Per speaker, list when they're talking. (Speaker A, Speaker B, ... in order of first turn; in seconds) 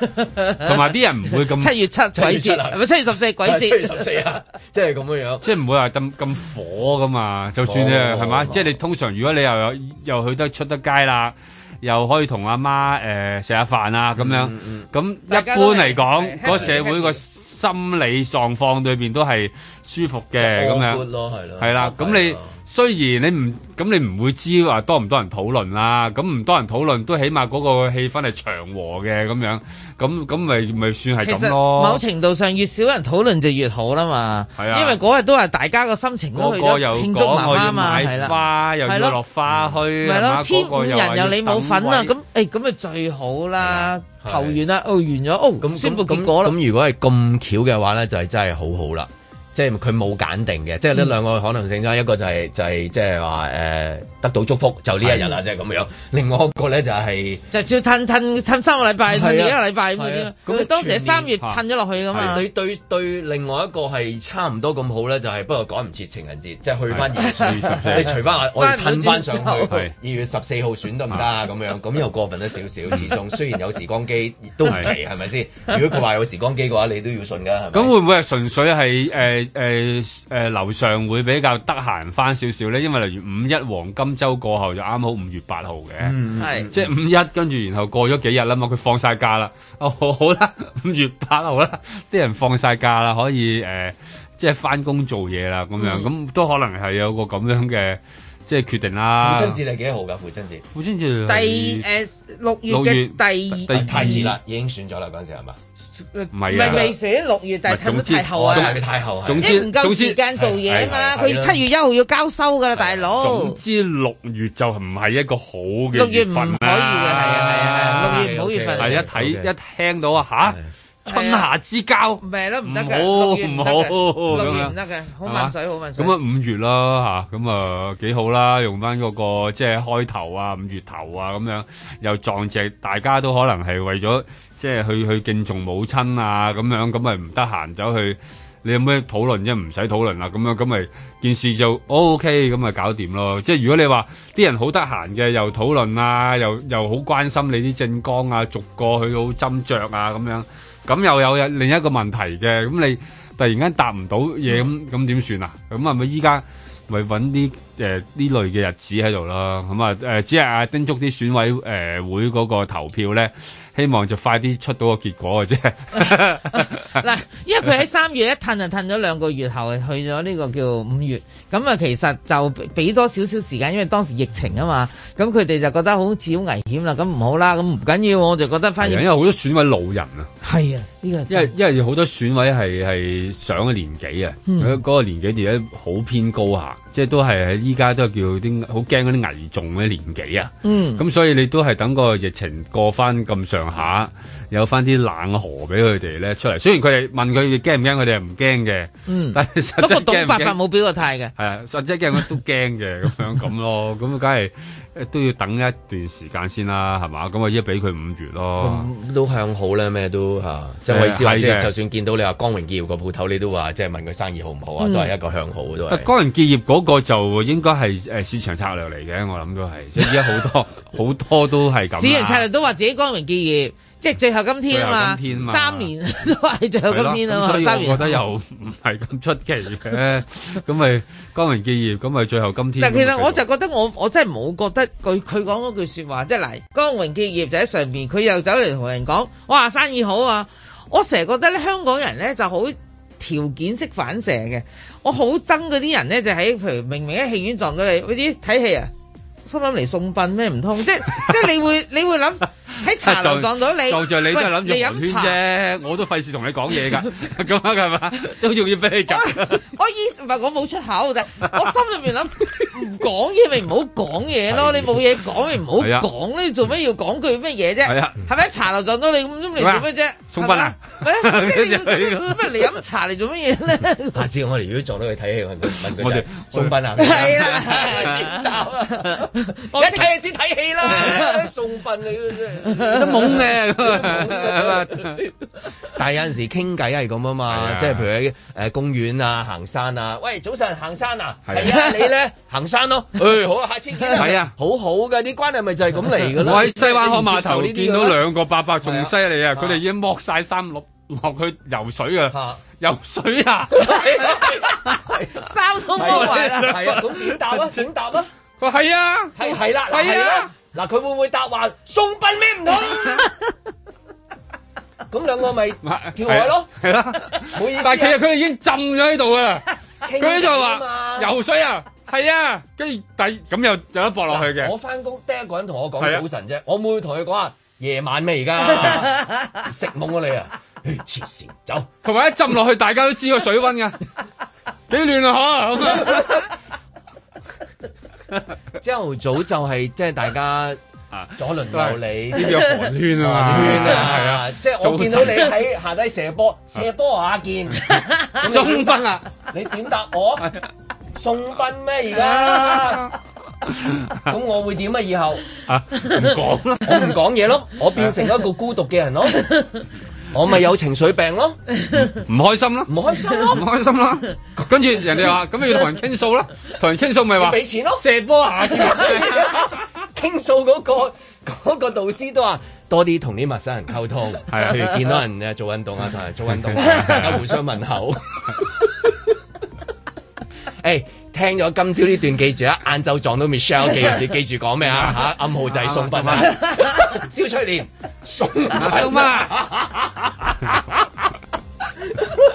Speaker A: 0.6-1.8, 5.4-21.0, 21.6-32.0, 34.6-35.0, 36.3-42.1, 62.1-62.4, 66.9-68.2, 74.6-74.9, 77.7-86.2, 86.7-99.6, 100.7-101.8, 102.7-104.3, 106.3-106.9, 107.7-110.2, 113.2-124.7, 125.2-167.0, 178.8-180.3, 181.3-200.6, 201.3-208.9, 210.9-211.7, 215.9-222.5, 224.7-225.9, 226.9-233.4, 252.9-259.6, 265.8-266.1, 267.9-268.2, 269.6-272.7, 275.9-277.4, 282.8-285.2, 287.5-288.1, 291.5-291.8, 294.1-294.5, 296.4-304.6, 306.0-307.9, 308.6-310.5, 315.8-324.7, 326.0-326.2, 332.0-334.0, 334.9-336.5, 341.1-345.6, 348.4-349.2, 352.1-353.1, 353.6-354.2, 355.6-357.1, 361.9-369.7, 374.5-375.1, 376.5-377.4, 384.9-386.6, 388.7-389.5
Speaker B: 1.6-4.0, 15.3-17.2, 31.2-39.1, 40.0-46.5, 57.5-62.4, 68.5-69.7, 86.4-86.7, 95.8-96.1, 101.3-104.2, 106.1-108.8, 109.4-113.6, 115.9-119.0, 121.0-121.5, 122.2-126.1, 166.0-179.1, 180.4-181.5, 184.5-184.8, 190.6-191.0, 199.1-201.3, 214.8-215.1, 221.9-228.2, 232.8-248.9, 249.4-255.4, 259.1-274.2, 277.0-278.4, 279.0-280.1, 280.8-281.4, 305.4-306.8
Speaker C: 2.1-2.8, 3.4-5.5, 7.6-8.7, 14.2-14.8, 16.5-16.8, 20.4-22.5, 39.5-39.8, 43.6-44.6, 45.6-57.4, 59.0-61.3, 62.1-77.9, 86.0-86.8, 99.2-100.6, 103.7-105.6, 106.6-106.9, 108.3-109.5, 110.3-111.6, 112.8-113.2, 117.7-119.5, 120.4-120.7, 124.3-124.6, 208.6-216.1, 264.5-264.9, 274.1-285.3, 285.9-298.2, 298.8-299.8, 302.3-302.6, 303.7-305.4, 305.9-308.3, 309.4-313.3, 315.1-316.7, 317.5-318.2, 320.0-321.3, 324.3-331.9, 338.8-340.8, 341.4-350.5, 351.1-353.1, 354.2-355.5, 356.8-361.6, 362.9-363.6, 367.4-368.0, 368.7-378.9, 380.8-390.9